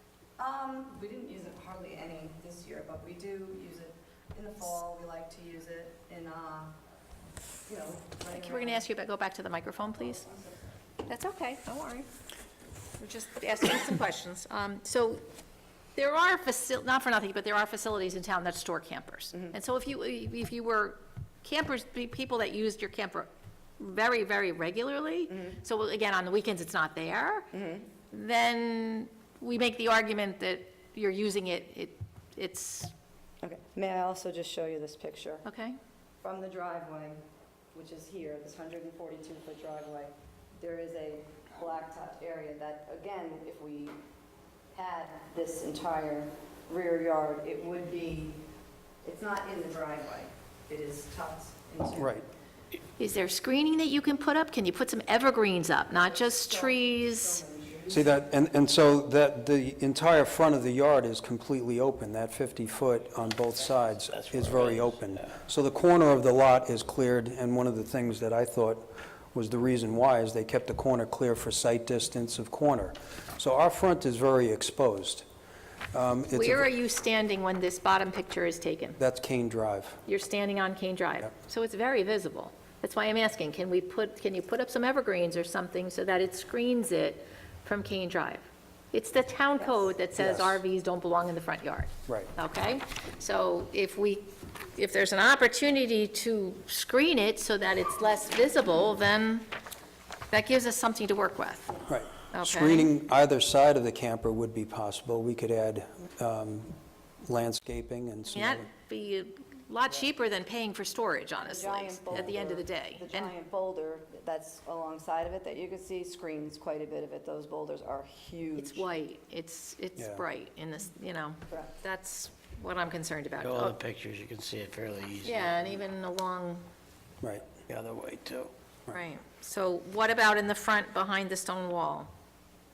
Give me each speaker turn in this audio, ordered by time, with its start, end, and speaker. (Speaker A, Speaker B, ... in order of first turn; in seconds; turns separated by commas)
Speaker A: 0.4-6.8, Speaker A: 7.7-8.9, Speaker B: 8.3-10.2, Speaker A: 10.0-10.7, Speaker B: 11.1-12.1, Speaker B: 13.0-15.2, Speaker B: 16.0-23.3, Speaker B: 23.8-27.5, Speaker A: 25.3-25.6, Speaker A: 27.5-27.9, Speaker B: 28.1-32.9, Speaker A: 33.4-35.5, Speaker B: 35.5-35.8, Speaker A: 36.2-37.2, Speaker A: 37.7-44.0, Speaker A: 44.7-48.4, Speaker A: 49.0-52.2, Speaker C: 52.0-52.2, Speaker B: 53.0-57.4, Speaker A: 55.9-58.2, Speaker C: 57.9-75.3, Speaker D: 63.4-65.2, Speaker C: 75.9-76.7, Speaker B: 76.3-79.0, Speaker C: 79.0-80.0, Speaker B: 80.1-99.5, Speaker A: 89.6-89.9, Speaker C: 90.2-90.6, Speaker B: 100.3-101.8, Speaker C: 101.9-108.7, Speaker B: 102.3-102.9, Speaker B: 108.3-113.3, Speaker A: 111.4-118.9, Speaker B: 118.6-123.8, Speaker C: 120.0-120.2, Speaker A: 121.5-121.8, Speaker D: 123.4-125.8, Speaker B: 125.2-126.6, Speaker D: 127.7-128.5, Speaker B: 128.9-132.1